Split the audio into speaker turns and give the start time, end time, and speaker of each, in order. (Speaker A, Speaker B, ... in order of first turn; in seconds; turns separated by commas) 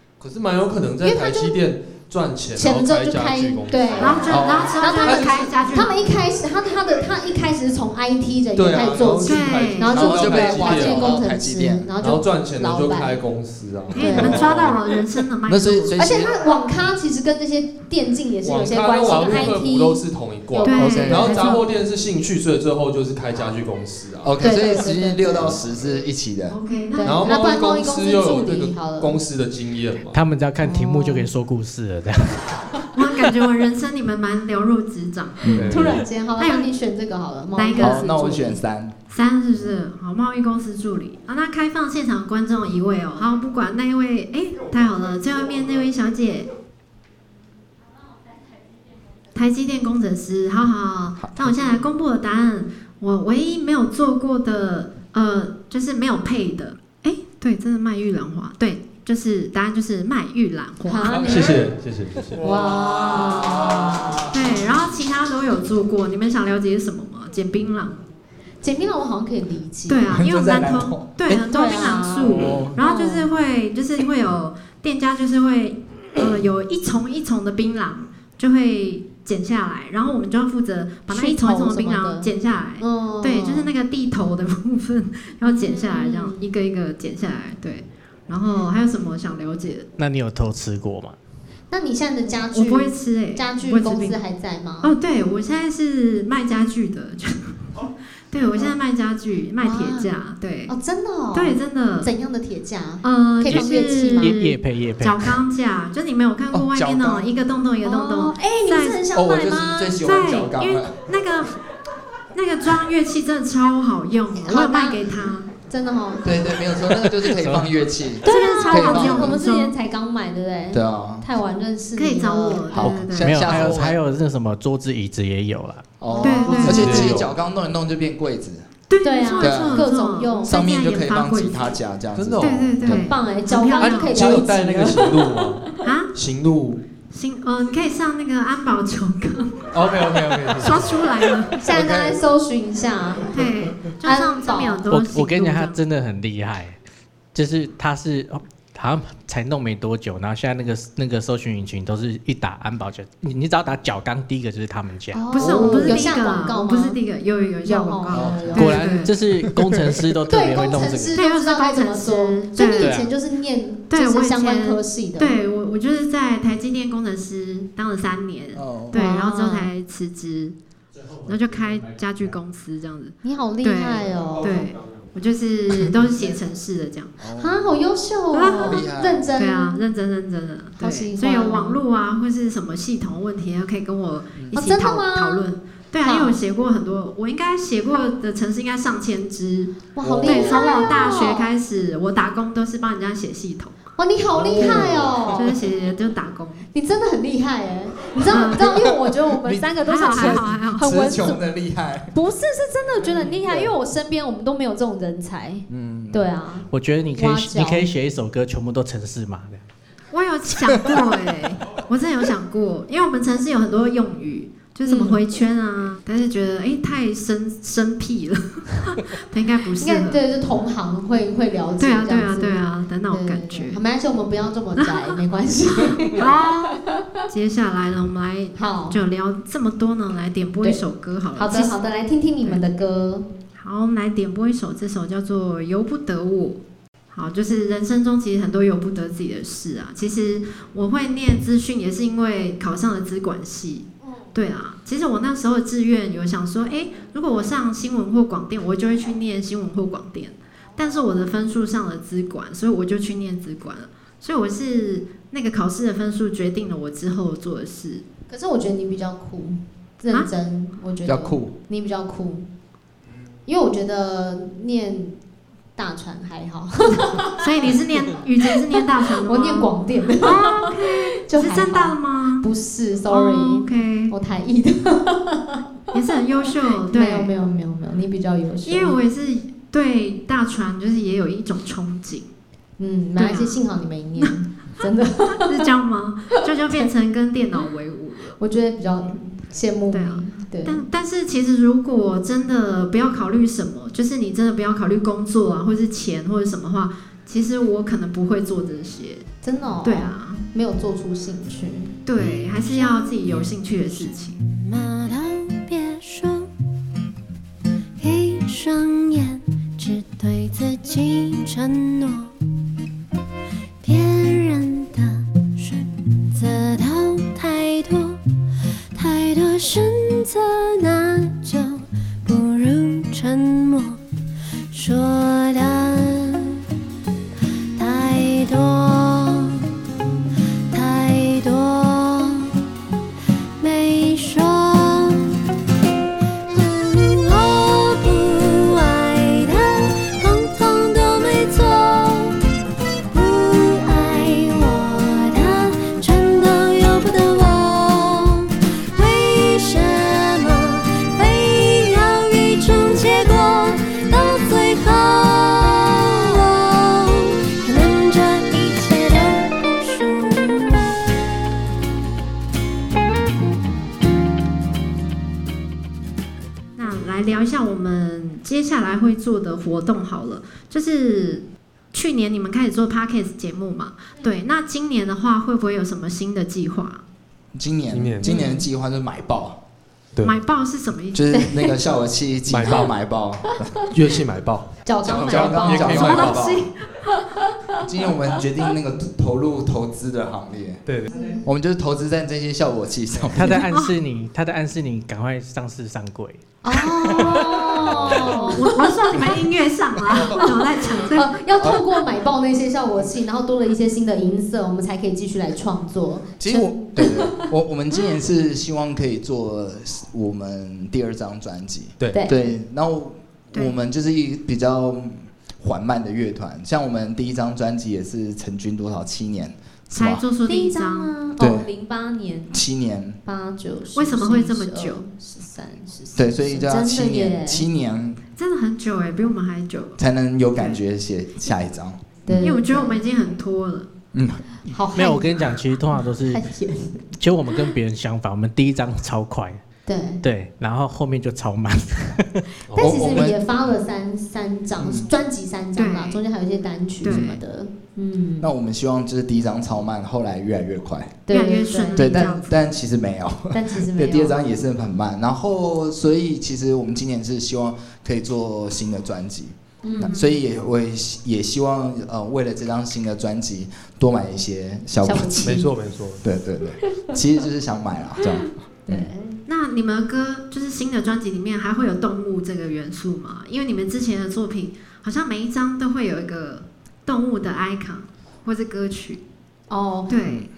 Speaker A: 0.2-4.5, Speaker B: 1.0-1.6, Speaker B: 2.5-13.2, Speaker C: 4.0-6.1, Speaker D: 4.3-5.3, Speaker A: 8.6-11.2, Speaker D: 8.8-9.2, Speaker C: 9.2-9.9, Speaker D: 9.8-11.9, Speaker A: 12.0-14.8, Speaker B: 13.9-14.5, Speaker C: 13.9-16.0, Speaker D: 15.5-16.4, Speaker B: 16.0-21.6, Speaker A: 18.4-24.4, Speaker D: 19.1-19.5, Speaker C: 20.6-21.3, Speaker D: 20.8-21.6, Speaker D: 24.2-26.6, Speaker B: 24.4-25.6, Speaker C: 26.5-27.4, Speaker B: 26.9-29.2, Speaker A: 27.0-30.2, Speaker E: 30.1-32.7, Speaker B: 30.6-31.3, Speaker C: 32.9-36.7, Speaker D: 35.4-36.0, Speaker A: 35.5-36.1, Speaker B: 35.6-38.5, Speaker C: 37.5-38.6, Speaker D: 37.8-39.0, Speaker C: 39.1-46.5, Speaker C: 49.3-61.3, Speaker D: 51.2-51.8, Speaker B: 60.8-61.6, Speaker A: 61.2-62.5, Speaker B: 62.4-64.6, Speaker C: 64.3-68.0, Speaker B: 68.6-70.1, Speaker C: 69.9-89.9, Speaker D: 70.1-72.8, Speaker B: 71.3-73.3, Speaker B: 81.1-83.7, Speaker B: 85.4-86.5, Speaker E: 90.0-91.2, Speaker B: 91.7-95.0, Speaker C: 92.5-94.2, Speaker C: 94.8-100.7, Speaker B: 98.5-98.8, Speaker B: 99.6-100.1, Speaker B: 100.7-104.3, Speaker C: 101.3-102.1, Speaker C: 103.0-109.0, Speaker E: 103.5-105.4, Speaker D: 106.5-107.3, Speaker B: 107.8-110.0, Speaker D: 109.1-111.1, Speaker C: 110.0-111.6, Speaker C: 112.3-115.5, Speaker B: 114.3-116.5, Speaker D: 116.2-119.4, Speaker A: 117.4-117.7, Speaker B: 118.2-123.0, Speaker C: 118.2-119.8, Speaker D: 120.7-121.3, Speaker C: 122.0-123.7, Speaker D: 122.7-124.0, Speaker E: 122.8-125.9, Speaker D: 126.0-128.6, Speaker B: 126.1-127.0, Speaker C: 126.2-127.2, Speaker A: 126.5-127.3, Speaker C: 128.9-131.8, Speaker B: 129.0-130.6, Speaker D: 129.4-129.9, Speaker D: 130.4-133.1, Speaker A: 132.1-133.0, Speaker C: 132.4-134.2, Speaker B: 132.9-135.6, Speaker A: 133.8-136.8, Speaker C: 135.8-136.1, Speaker C: 137.1-139.7, Speaker A: 139.7-140.9, Speaker D: 140.1-140.7, Speaker C: 140.6-141.6, Speaker B: 141.6-143.4, Speaker D: 141.7-142.2, Speaker C: 143.3-145.8, Speaker B: 144.0-144.8, Speaker E: 144.9-146.8, Speaker E: 147.3-155.4, Speaker B: 155.1-157.0, Speaker C: 155.3-159.1, Speaker D: 155.4-156.0, Speaker B: 157.6-158.9, Speaker D: 158.1-159.1, Speaker E: 158.6-161.2, Speaker B: 160.3-165.4, Speaker C: 161.1-163.0, Speaker E: 162.8-163.1, Speaker C: 163.9-170.6, Speaker D: 168.6-169.0, Speaker B: 168.9-169.7, Speaker C: 171.2-177.1, Speaker B: 173.2-174.7, Speaker D: 177.2-177.8, Speaker B: 177.4-179.8, Speaker C: 178.3-178.8, Speaker D: 178.6-179.3, Speaker C: 179.4-193.7, Speaker B: 180.8-181.8, Speaker B: 184.5-185.5, Speaker B: 186.0-186.4, Speaker B: 190.0-191.5, Speaker D: 190.0-190.6, Speaker B: 194.0-195.6, Speaker D: 194.3-195.5, Speaker C: 194.6-196.7, Speaker B: 196.7-201.4, Speaker C: 198.3-198.8, Speaker D: 199.4-202.1, Speaker C: 199.8-200.9, Speaker B: 202.1-207.9, Speaker D: 203.1-203.8, Speaker D: 205.7-206.3, Speaker E: 206.7-209.7, Speaker C: 210.1-220.2, Speaker B: 214.9-215.2, Speaker B: 219.8-227.2, Speaker C: 221.8-223.8, Speaker C: 224.8-225.2, Speaker C: 226.1-231.8, Speaker B: 228.6-229.0, Speaker B: 231.4-233.3, Speaker C: 233.6-236.6, Speaker C: 237.1-258.1, Speaker B: 258.3-262.5, Speaker D: 261.0-261.5, Speaker B: 263.5-265.2, Speaker B: 265.8-267.8, Speaker C: 267.4-272.5, Speaker B: 268.8-275.6, Speaker C: 273.1-274.1, Speaker C: 275.9-277.3, Speaker B: 276.7-279.0, Speaker C: 278.6-282.3, Speaker B: 282.8-285.6, Speaker C: 283.2-283.6, Speaker C: 285.3-288.4, Speaker B: 288.4-290.8, Speaker C: 289.9-299.3, Speaker B: 299.4-302.0, Speaker C: 299.8-300.5, Speaker C: 302.1-304.4, Speaker F: 302.4-306.5, Speaker F: 308.0-312.3, Speaker F: 313.8-318.2, Speaker F: 318.9-324.0, Speaker F: 324.7-326.6, Speaker F: 327.8-329.6, Speaker F: 330.7-332.6, Speaker F: 333.6-335.3, Speaker F: 336.5-342.4, Speaker F: 343.1-361.0, Speaker C: 366.8-377.0, Speaker D: 377.6-379.6, Speaker A: 377.9-378.3, Speaker C: 378.3-378.6, Speaker C: 380.2-381.3, Speaker D: 381.1-383.9, Speaker B: 381.3-381.8, Speaker A: 382.5-382.9, Speaker A: 383.9-386.6, Speaker B: 384.9-388.4, Speaker D: 385.0-386.7, Speaker C: 386.1-386.4, Speaker D: 387.8-390.8, Speaker A: 390.9-391.1, Speaker B: 391.1-391.5, Speaker D: 391.4-393.6, Speaker E: 393.3-396.4, Speaker C: 393.7-394.0, Speaker B: 396.6-399.3, Speaker E: 397.0-397.9, Speaker D: 397.2-398.5, Speaker C: 398.2-401.4, Speaker D: 400.1-400.4, Speaker B: 400.2-407.5, Speaker D: 401.6-401.8, Speaker D: 406.4-420.2, Speaker A: 412.0-412.3, Speaker B: 412.1-412.4, Speaker C: 419.9-421.1, Speaker B: 420.4-422.6, Speaker D: 421.4-421.7, Speaker D: 422.5-423.2, Speaker B: 423.2-427.7, Speaker C: 423.9-425.0, Speaker D: 426.1-428.2, Speaker C: 428.4-430.0, Speaker D: 430.0-432.4, Speaker B: 432.3-433.1, Speaker C: 432.3-433.9, Speaker D: 434.1-434.5, Speaker B: 434.6-435.6, Speaker E: 434.9-436.5, Speaker B: 436.3-437.1, Speaker E: 437.2-439.6, Speaker B: 439.9-440.2, Speaker E: 440.2-442.4, Speaker A: 442.7-443.3, Speaker B: 442.7-448.5, Speaker D: 442.8-443.4, Speaker D: 444.8-445.1, Speaker C: 445.8-446.2, Speaker C: 447.0-447.4, Speaker D: 448.4-451.2, Speaker B: 451.3-452.3, Speaker C: 451.3-452.6, Speaker D: 451.9-465.6, Speaker B: 453.5-454.4, Speaker B: 459.8-460.2, Speaker C: 460.0-460.4, Speaker B: 465.0-465.7, Speaker A: 465.4-466.2, Speaker D: 466.2-469.1, Speaker B: 468.2-469.4, Speaker C: 469.5-479.2, Speaker B: 479.7-480.1, Speaker C: 480.1-480.5